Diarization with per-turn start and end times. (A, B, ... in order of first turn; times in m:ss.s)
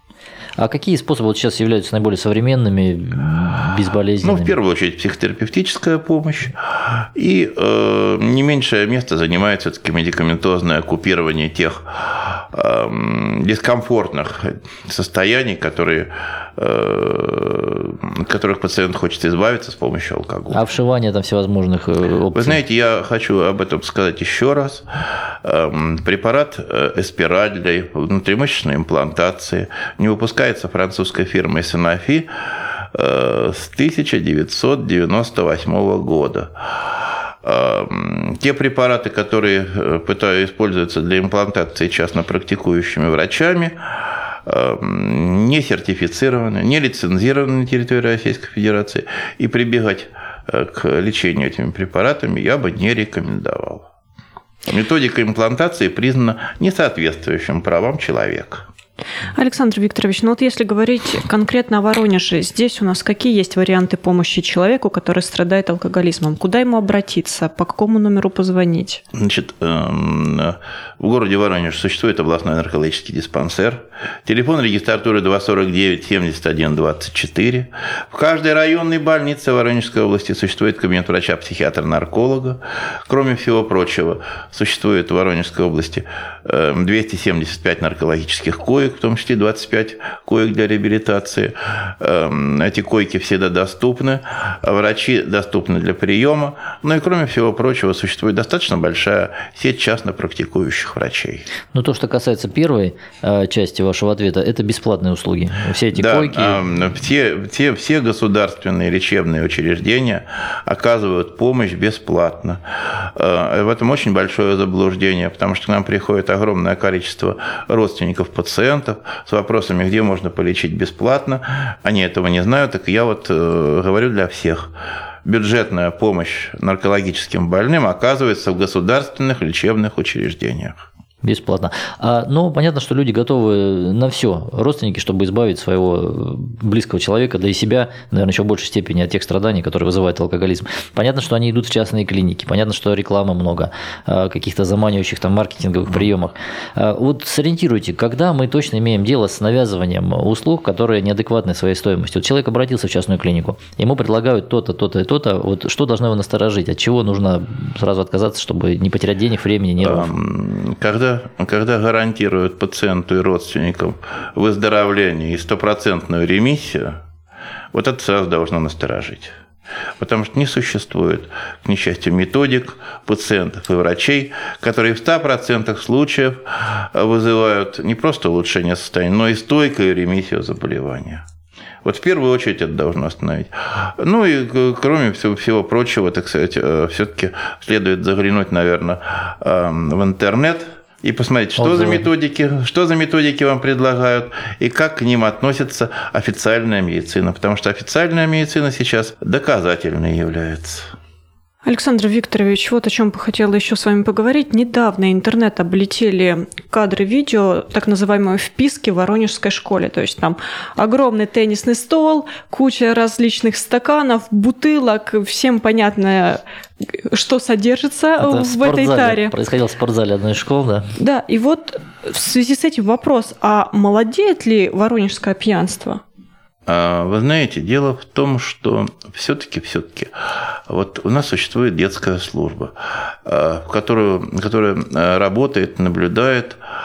0:00.6-0:04.6 A
0:04.2-0:20.6 B
0:20.5-0:22.6 A
0:22.3-0:24.9 B
0:25.4-0:53.9 B
0:54.7-0:58.7 B
0:59.4-1:09.0 C
1:09.1-1:41.5 B
1:41.7-1:46.6 A
1:45.9-2:04.7 B
2:05.2-2:10.9 B
2:11.2-2:40.1 A
2:39.8-2:47.0 B
2:47.7-2:49.4 B
2:50.0-3:01.2 B
3:01.8-3:20.9 B
3:11.6-3:12.1 A
3:21.6-3:39.3 C
3:38.2-3:40.9 A
3:41.0-3:46.0 C
3:46.7-3:56.6 B